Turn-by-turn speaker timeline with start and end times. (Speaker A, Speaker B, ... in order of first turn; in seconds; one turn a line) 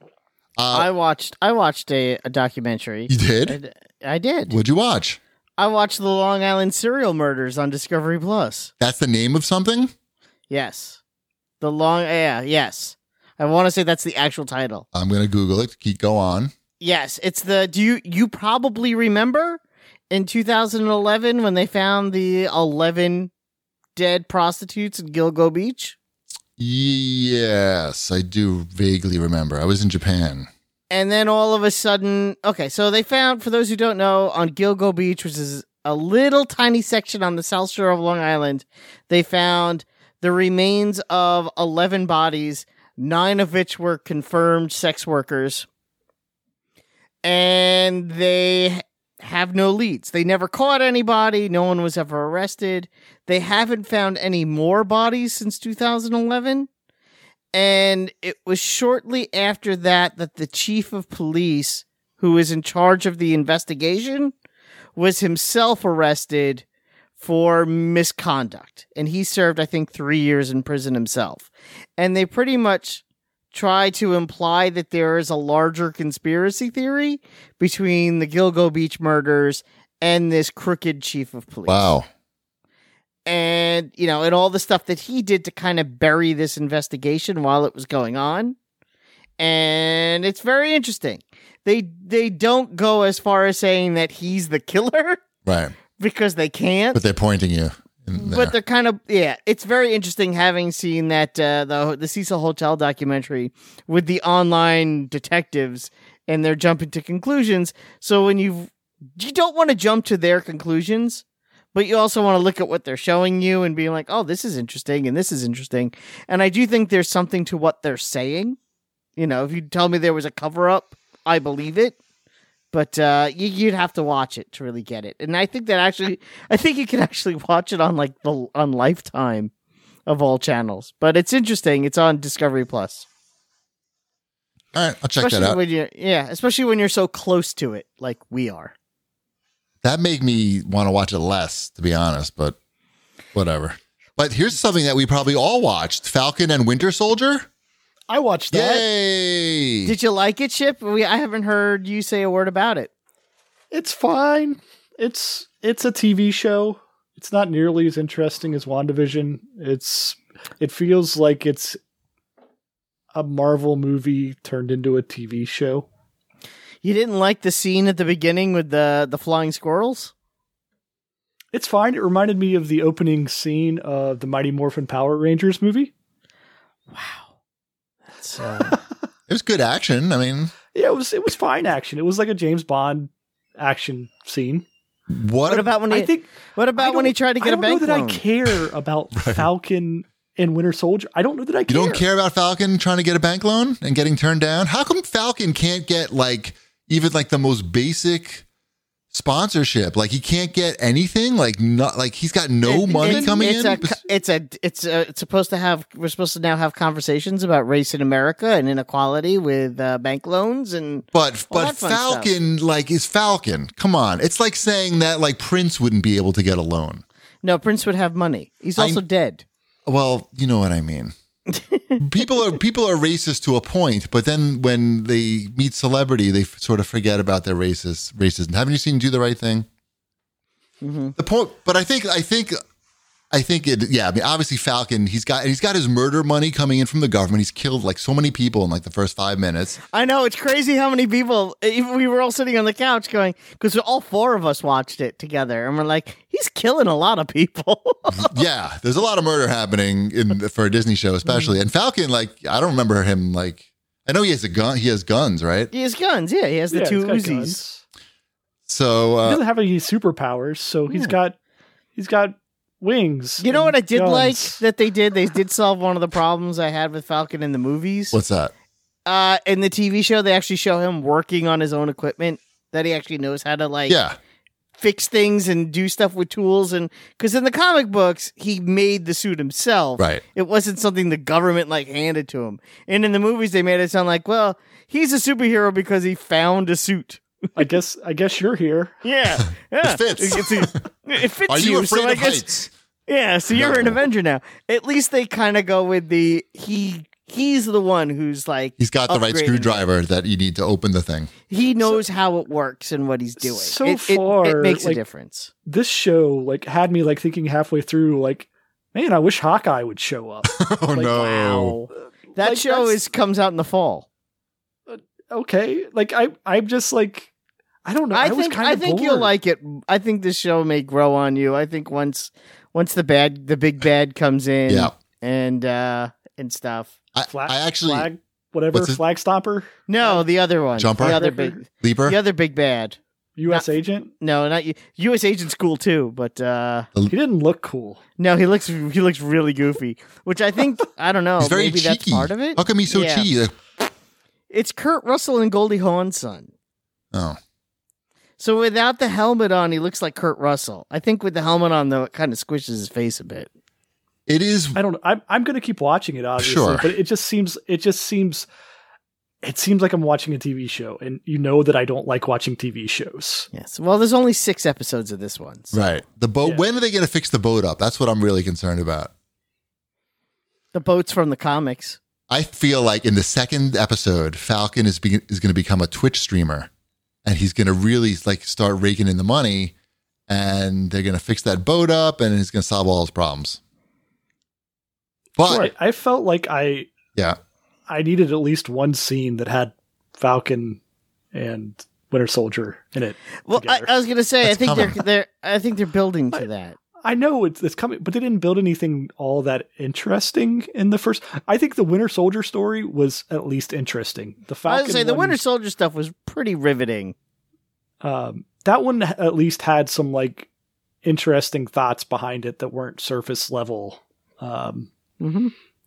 Speaker A: 0.6-0.9
Speaker B: 0.7-4.5
Speaker A: 3.1-3.6
Speaker A: 4.5-5.2
Speaker B: 5.6-8.7
Speaker A: 8.8-9.9
Speaker B: 10.5-11.0
Speaker B: 11.6-14.8
Speaker A: 14.9-16.5
Speaker B: 16.8-23.3
Speaker B: 23.9-25.9
Speaker A: 26.6-30.5
Speaker B: 30.9-45.6
Speaker B: 47.2-56.7
Speaker B: 57.5-64.3
Speaker B: 65.0-66.6
Speaker B: 67.2-81.8
Speaker A: 81.7-82.1
Speaker B: 83.2-88.5
Speaker B: 89.4-95.2
Speaker A: 95.4-95.8
Speaker B: 96.0-97.0
Speaker A: 96.9-98.5
Speaker B: 98.2-118.6
Speaker B: 119.2-122.0
Speaker B: 122.7-129.5
Speaker B: 130.1-133.1
Speaker A: 134.7-135.6
Speaker B: 135.2-138.7
Speaker A: 139.8-142.6
Speaker A: 143.3-147.5
Speaker C: 148.1-148.8
Speaker A: 148.5-149.9
Speaker B: 149.8-152.9
Speaker C: 153.7-161.8
Speaker C: 163.1-165.8
Speaker B: 166.8-170.1
Speaker C: 171.5-175.9
Speaker B: 176.9-177.2
Speaker B: 178.2-178.8
Speaker A: 179.3-180.5
Speaker C: 180.7-184.6
Speaker A: 185.1-185.7
Speaker B: 185.5-188.2
Speaker C: 185.9-192.0
Speaker A: 189.2-189.5
Speaker A: 191.7-198.4
Speaker A: 199.1-204.0
Speaker B: 202.6-212.3
Speaker C: 203.0-203.3
Speaker A: 211.1-217.0
Speaker B: 217.4-219.4
Speaker A: 218.8-219.0
Speaker A: 219.8-221.1
Speaker B: 221.5-222.0
Speaker A: 222.0-229.7
Speaker B: 230.8-231.1
Speaker A: 231.2-232.6
Speaker A: 233.3-239.8
Speaker B: 239.9-248.3
Speaker A: 248.1-255.7
Speaker B: 255.7-257.6
Speaker C: 256.7-257.8
Speaker A: 258.7-259.4
Speaker C: 259.2-261.4
Speaker B: 260.9-261.1
Speaker C: 261.9-264.6
Speaker B: 263.4-268.2
Speaker A: 268.1-268.5
Speaker B: 269.1-274.0
Speaker A: 273.9-274.2
Speaker B: 274.8-287.2
Speaker A: 280.0-280.2
Speaker C: 287.6-288.9
Speaker B: 289.0-299.8
Speaker A: 289.8-290.8
Speaker A: 291.4-292.7
Speaker A: 293.5-294.0
Speaker A: 298.8-301.3
Speaker B: 301.5-305.5
Speaker C: 303.4-305.0
Speaker C: 305.6-311.7
Speaker A: 310.5-311.7
Speaker B: 311.2-314.1
Speaker C: 312.3-313.0
Speaker C: 314.9-317.3
Speaker C: 317.8-319.3
Speaker B: 318.1-326.9
Speaker A: 327.1-328.1
Speaker C: 327.3-330.2
Speaker A: 328.7-329.0
Speaker B: 329.9-333.0
Speaker A: 330.8-332.2
Speaker C: 331.0-331.6
Speaker C: 333.4-334.1
Speaker B: 333.5-336.9
Speaker C: 337.1-338.0
Speaker B: 338.2-343.3
Speaker A: 341.4-343.5
Speaker B: 344.5-346.5
Speaker A: 347.1-347.4
Speaker B: 348.4-353.5
Speaker A: 354.3-354.8
Speaker C: 354.7-358.4
Speaker A: 356.4-356.9
Speaker C: 359.4-363.5
Speaker B: 363.5-365.8
Speaker A: 365.7-369.1
Speaker B: 370.7-372.0
Speaker A: 372.3-376.7
Speaker A: 377.2-379.7
Speaker A: 380.3-383.6
Speaker A: 385.4-385.7
Speaker C: 385.5-386.9
Speaker C: 387.9-390.8
Speaker C: 391.3-393.9
Speaker B: 393.5-396.8
Speaker A: 394.4-395.0
Speaker C: 397.0-405.4
Speaker B: 404.7-407.1
Speaker C: 408.0-410.5
Speaker C: 411.0-414.9
Speaker B: 415.2-415.5